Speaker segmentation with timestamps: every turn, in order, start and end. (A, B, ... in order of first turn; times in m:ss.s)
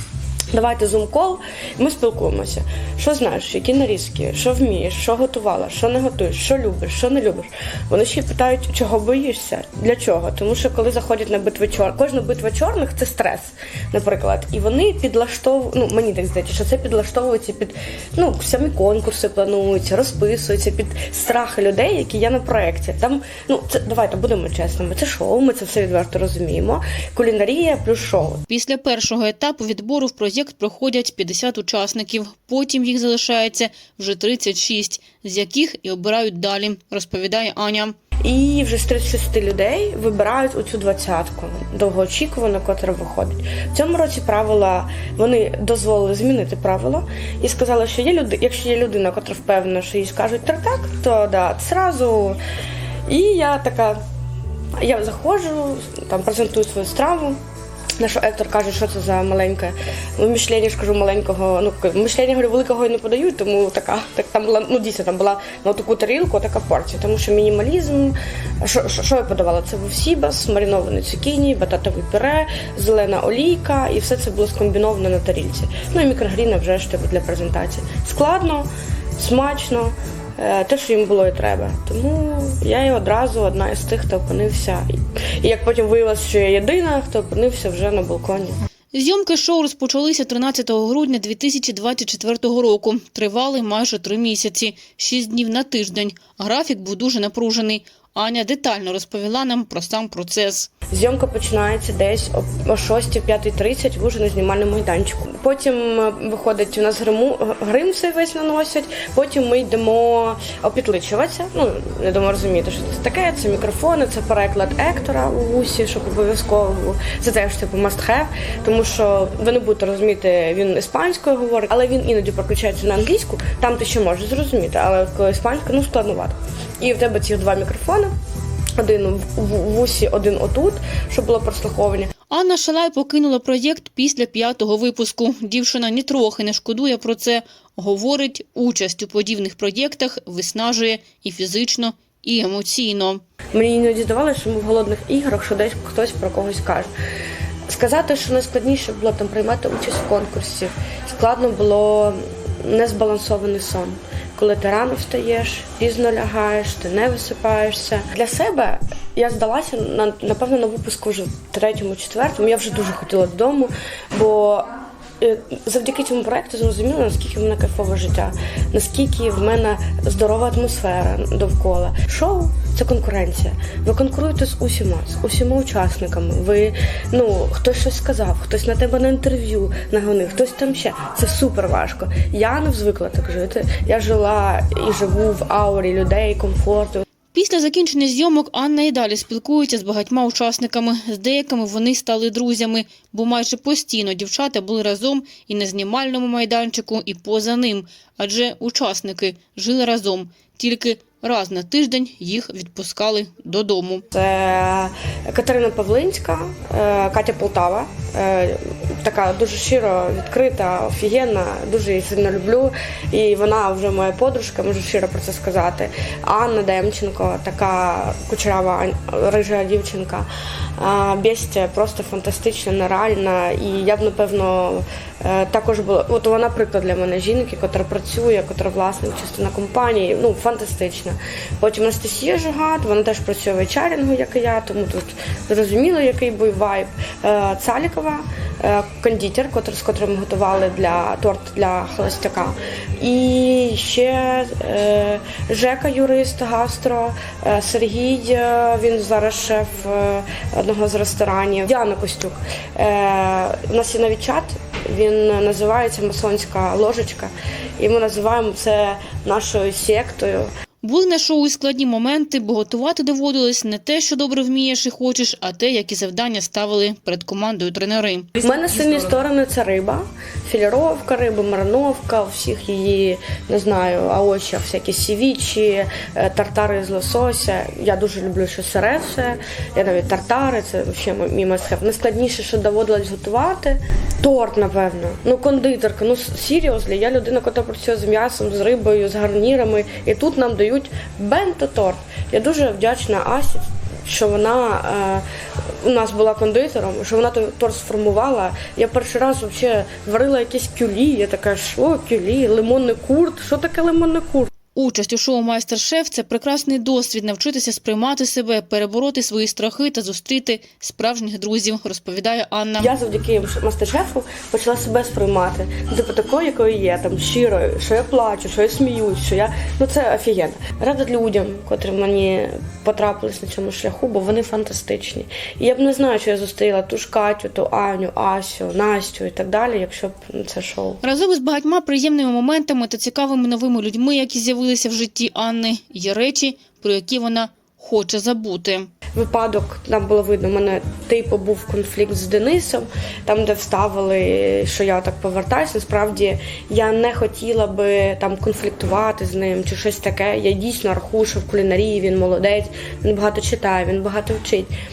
0:00.5-0:28.4 A
0:28.5-0:37.9 B
0:38.2-0:52.4 A
0:53.1-0:54.0 A
0:54.8-0:57.4 A
0:58.0-1:24.8 A
1:25.4-1:28.6 A
1:28.9-1:40.7 B
1:40.9-2:08.1 A
2:08.8-2:12.1 A
2:12.3-2:23.2 B
2:23.5-2:26.9 A
2:27.7-3:07.0 A
3:07.3-3:24.0 B
3:24.1-4:20.5 A
4:20.8-4:28.3 B
4:28.4-4:55.2 A
4:55.8-5:04.5 A
5:04.7-5:12.9 B
5:12.8-5:31.0 A
5:31.0-5:38.9 B
5:39.1-5:54.7 A